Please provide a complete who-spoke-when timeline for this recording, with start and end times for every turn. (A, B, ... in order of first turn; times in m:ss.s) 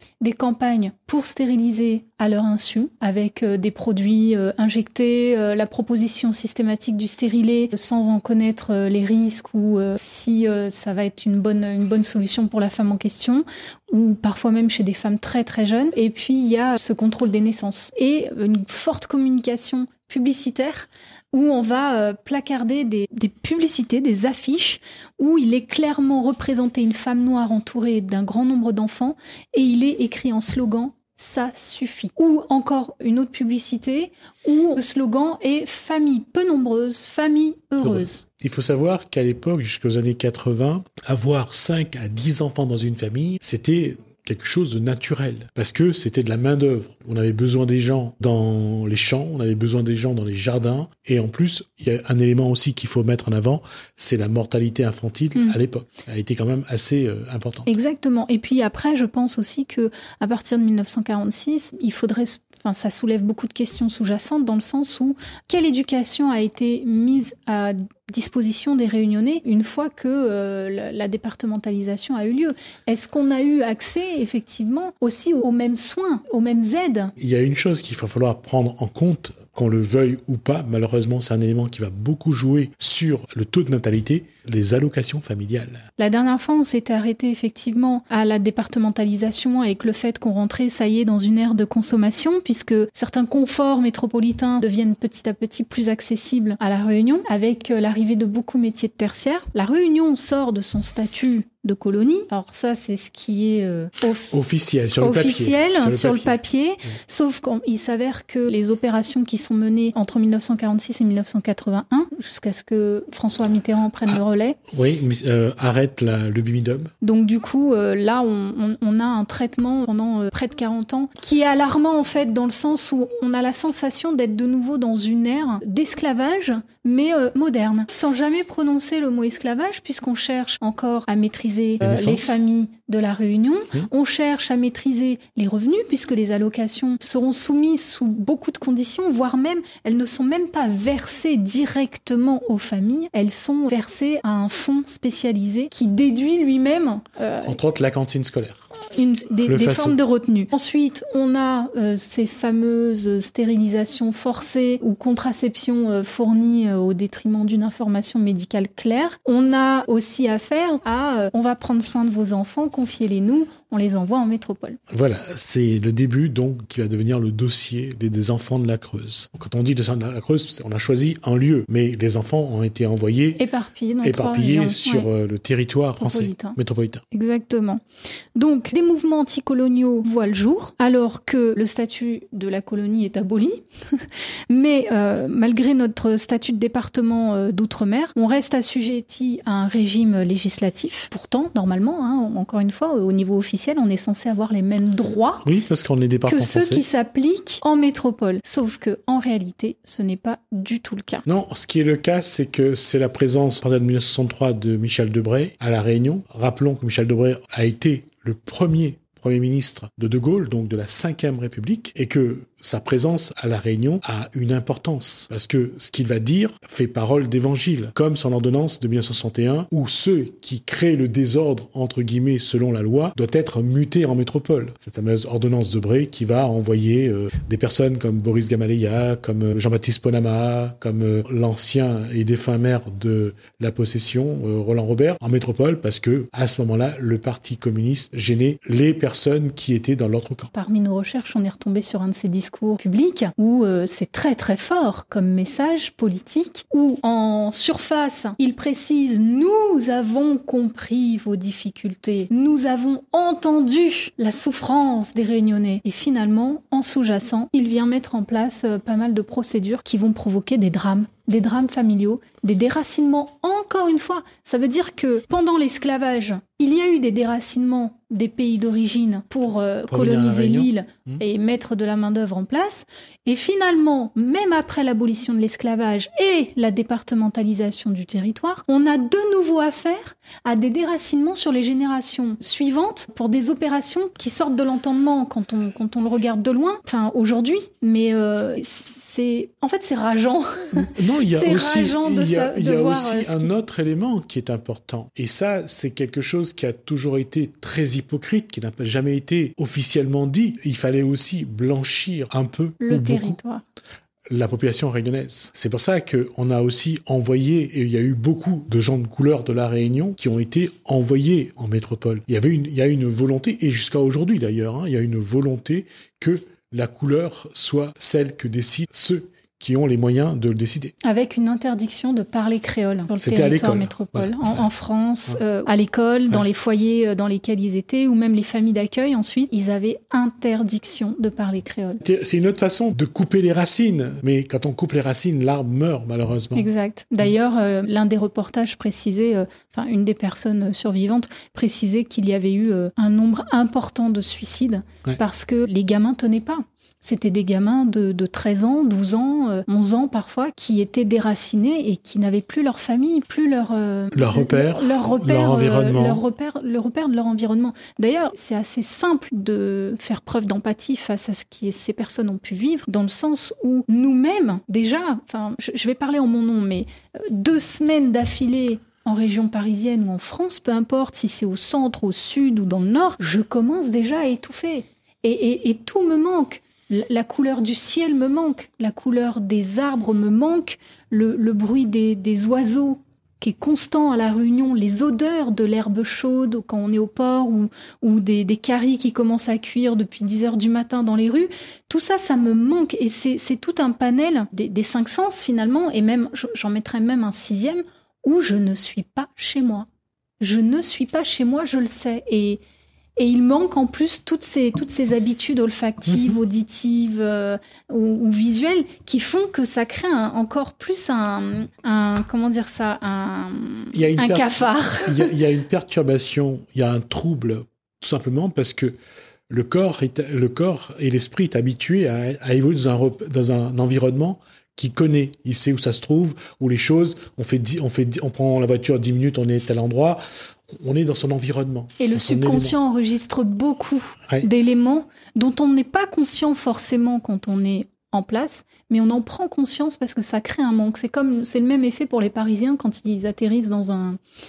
0:00.2-0:38.1 A
0:37.8-0:57.7 B
0:57.7-1:17.1 A
1:17.2-1:25.8 B
1:26.0-1:44.4 A
1:44.3-1:46.4 B
1:45.0-1:54.6 A
1:54.7-1:56.9 B
1:57.0-2:27.6 A
2:11.8-2:12.3 B
2:27.4-2:28.7 B
2:28.8-2:44.8 A
2:29.4-2:30.0 B
2:44.9-2:53.4 B
2:53.4-2:55.1 A
2:54.0-2:57.0 B
2:56.0-2:56.6 A
2:57.1-2:57.8 A
2:58.3-3:15.4 A
3:15.4-3:16.8 B
3:16.3-3:21.2 A
3:21.2-4:00.5 B
4:00.5-4:53.5 A
4:29.9-4:31.2 B
4:50.7-5:03.4 B
5:02.8-5:03.6 A
5:04.3-5:20.9 B
5:21.0-5:32.0 A
5:23.1-5:24.6 B
5:32.0-5:36.7 B
5:36.6-6:39.9 A
5:54.1-5:56.2 B
6:40.4-6:42.6 A
6:43.2-6:55.3 A
6:53.9-6:58.9 B
6:59.5-7:12.8 B
7:12.0-7:24.2 A